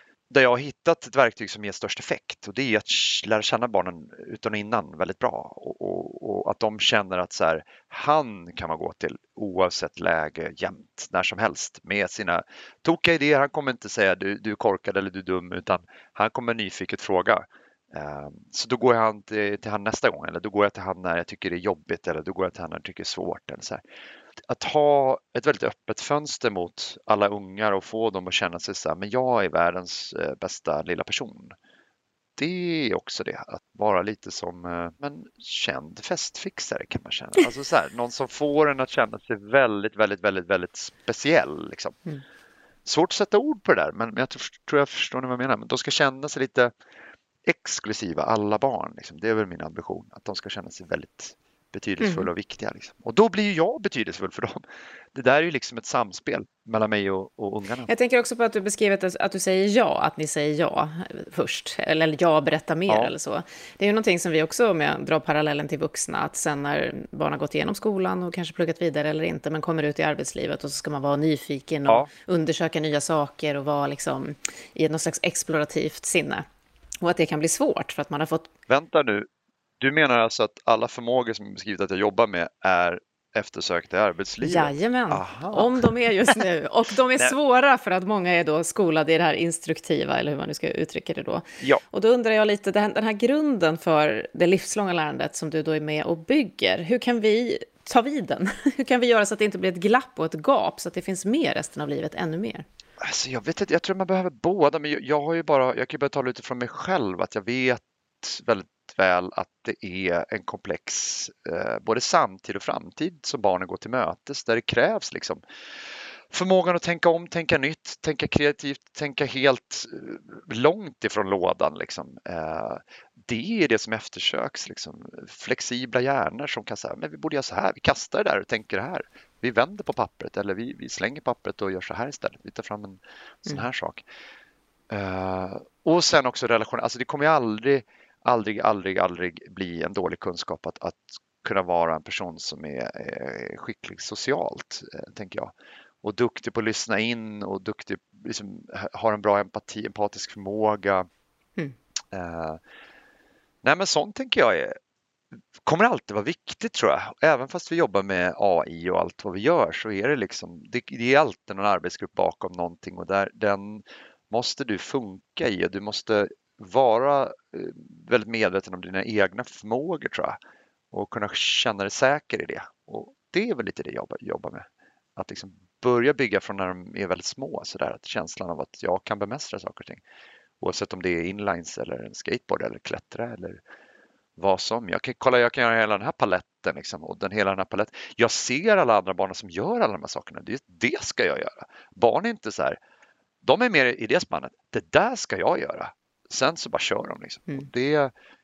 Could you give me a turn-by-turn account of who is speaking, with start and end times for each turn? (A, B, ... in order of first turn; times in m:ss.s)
0:00.3-0:23.8 A
0:24.5-0:31.6 A
0:32.4-0:42.0 A
0:42.8-0:46.7 A
0:47.4-0:54.6 A
0:52.0-0:52.3 B
0:55.1-0:57.9 A
0:57.9-1:16.4 B
1:02.9-1:03.1 A
1:17.0-1:18.5 B
1:18.7-1:19.3 A
1:19.8-1:25.8 A
1:24.4-1:42.6 B
1:43.0-1:55.4 A
1:56.3-2:14.0 A
2:14.9-2:25.5 A
2:26.0-2:31.1 A
2:32.1-2:32.6 A
2:33.6-2:34.8 A
2:35.7-2:50.4 A
2:50.9-3:00.0 A
3:00.6-3:03.6 A
3:04.4-3:12.8 A
3:13.4-3:18.1 A